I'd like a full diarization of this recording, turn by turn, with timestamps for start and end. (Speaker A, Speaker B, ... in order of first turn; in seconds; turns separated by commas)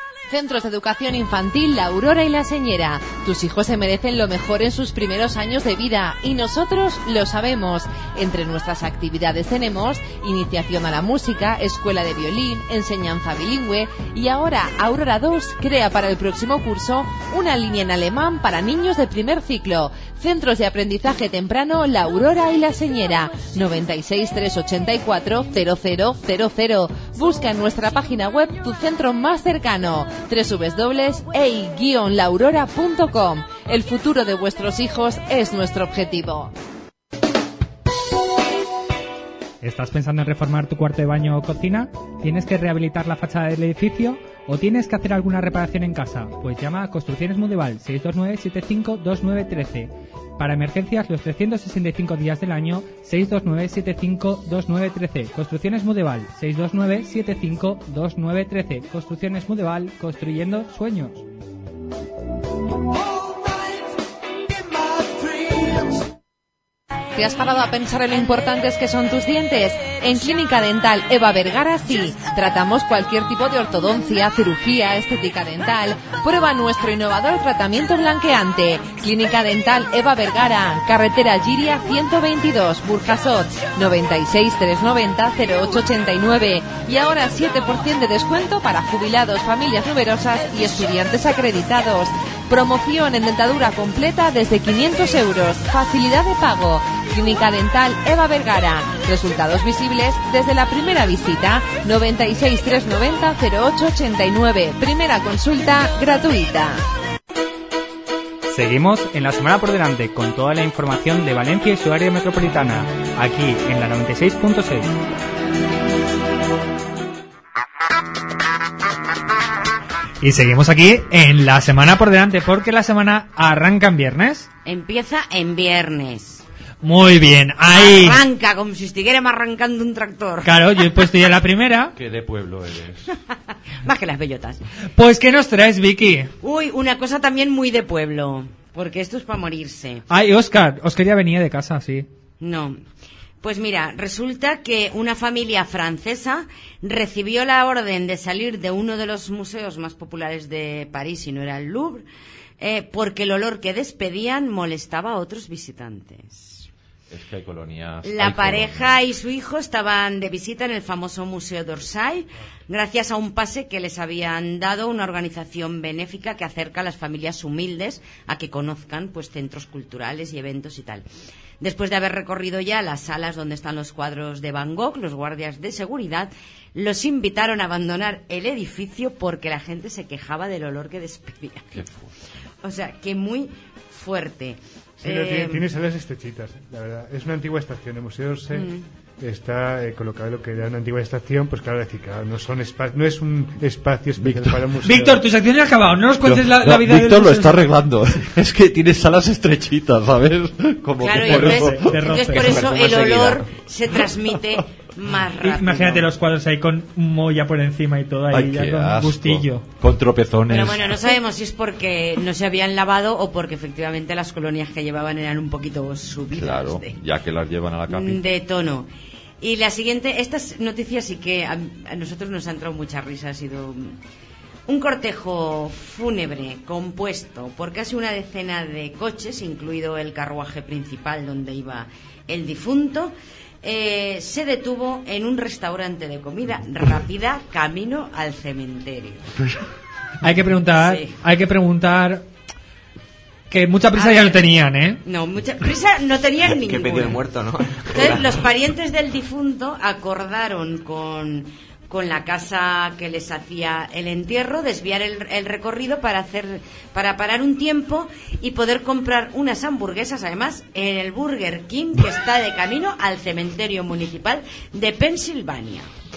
Speaker A: 0.3-36.5, Speaker B: 39.6-61.2, Speaker A: 67.2-106.8, Speaker B: 108.5-114.9, Speaker B: 120.2-124.5, Speaker C: 124.7-126.4, Speaker B: 126.8-128.2, Speaker C: 127.7-130.8, Speaker B: 130.4-131.9, Speaker D: 131.9-133.1, Speaker C: 133.8-134.6, Speaker B: 135.0-136.3, Speaker C: 136.4-140.0, Speaker B: 140.1-142.1, Speaker C: 142.4-142.8, Speaker C: 143.4-152.1, Speaker C: 152.6-156.7, Speaker D: 157.1-159.0, Speaker C: 158.0-171.1, Speaker C: 171.6-181.7, Speaker D: 181.7-182.1, Speaker C: 182.6-185.7, Speaker E: 185.0-195.3, Speaker C: 188.5-188.8, Speaker D: 194.2-194.7, Speaker B: 194.8-197.7, Speaker D: 196.2-203.0, Speaker C: 201.0-206.1, Speaker B: 201.2-202.6, Speaker F: 202.4-203.4, Speaker B: 205.4-209.6, Speaker D: 208.3-211.0, Speaker C: 210.5-216.9, Speaker D: 216.3-218.2, Speaker C: 217.9-218.9, Speaker C: 219.4-224.0, Speaker C: 224.7-239.3, Speaker B: 240.2-242.2, Speaker C: 240.8-241.1, Speaker B: 243.5-245.0, Speaker C: 243.9-244.5, Speaker C: 245.0-247.2, Speaker F: 246.6-248.4, Speaker C: 247.9-265.9